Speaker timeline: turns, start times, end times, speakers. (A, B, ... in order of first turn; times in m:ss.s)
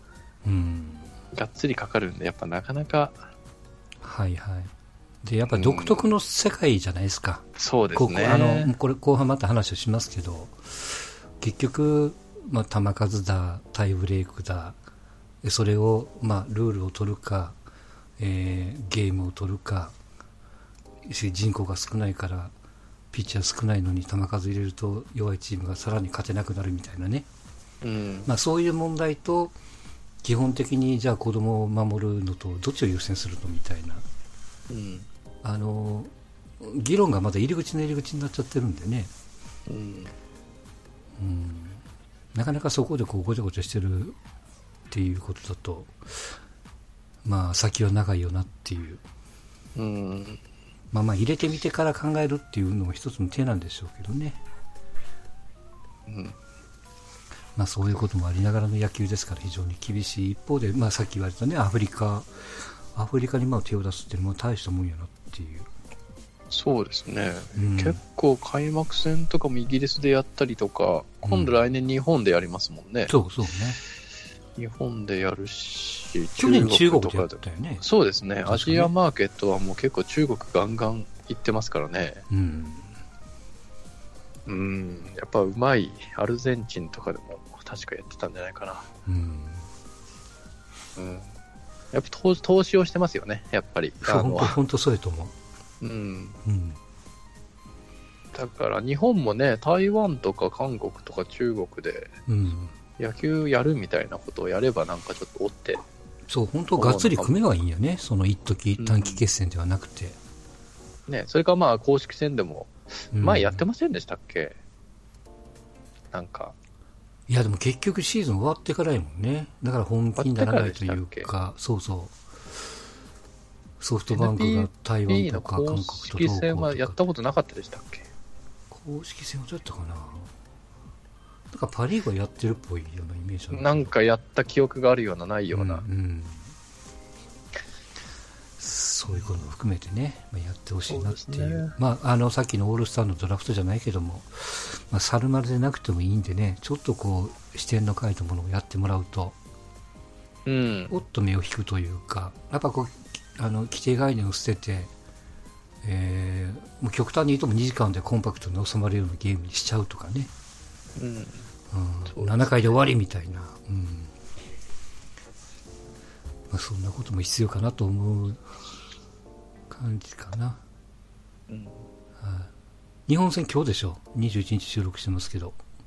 0:00.4-0:01.1 A
0:01.3-0:03.2 B
0:04.0-0:04.7 A
0:05.2-0:14.8 A
0:05.5-0:06.1 B
0:07.6-0:08.7 B
0:15.4-0:17.6 A
0:18.2-0:20.0 A
0:21.0-0:22.5 A
0:23.1-0:27.3 A
0:27.8-0:28.3 B
0:28.2-0:29.5 A
0:30.2-0:34.0 A
0:34.7-0:35.1 B
0:35.4-0:39.1 A
0:39.7-0:40.1 B
0:41.2-0:41.8 A
0:42.3-0:44.2 A
0:44.9-0:46.3 A
0:47.2-0:49.0 A
0:49.8-0:50.4 B
0:50.9-0:54.4 A
0:56.1-0:56.4 B
0:57.5-1:05.7 A
1:06.5-1:13.1 B
1:07.6-1:08.0 A
1:11.2-1:11.6 A
1:13.1-1:13.8 A
1:14.6-1:22.2 B
1:16.4-1:17.8 A
1:18.4-1:18.9 A
1:22.3-1:23.0 A
1:24.5-1:28.9 B
1:29.0-1:29.7 A
1:31.0-1:31.3 B
1:31.9-1:34.6 B
1:34.0-1:35.3 A
1:35.8-1:36.4 B
1:36.4-1:36.8 A
1:38.3-1:42.1 B
1:42.3-1:42.7 A
1:43.0-1:45.8 B
1:46.3-1:50.2 A
1:46.8-1:47.4 B
1:48.8-1:49.2 B
1:51.1-1:54.6 B
1:53.1-1:53.6 A
1:56.1-1:56.5 B
1:57.3-2:02.2 A
2:00.2-2:01.3 B
2:03.8-2:07.0 A
2:04.1-2:08.1 B
2:08.7-2:10.3 A
2:11.5-2:13.9 A
2:13.5-2:15.8 B
2:15.5-2:16.5 A
2:18.6-2:29.4 A
2:20.9-2:21.7 B
2:30.4-2:31.0 B
2:30.9-2:34.9 A
2:35.8-2:40.3 A
2:41.0-2:41.4 B
2:41.7-2:44.1 A
2:42.1-2:42.6 B
2:46.5-2:48.4 A
2:49.7-2:50.6 A
2:51.5-2:51.8 B
2:52.2-2:52.5 A
2:53.1-2:55.6 A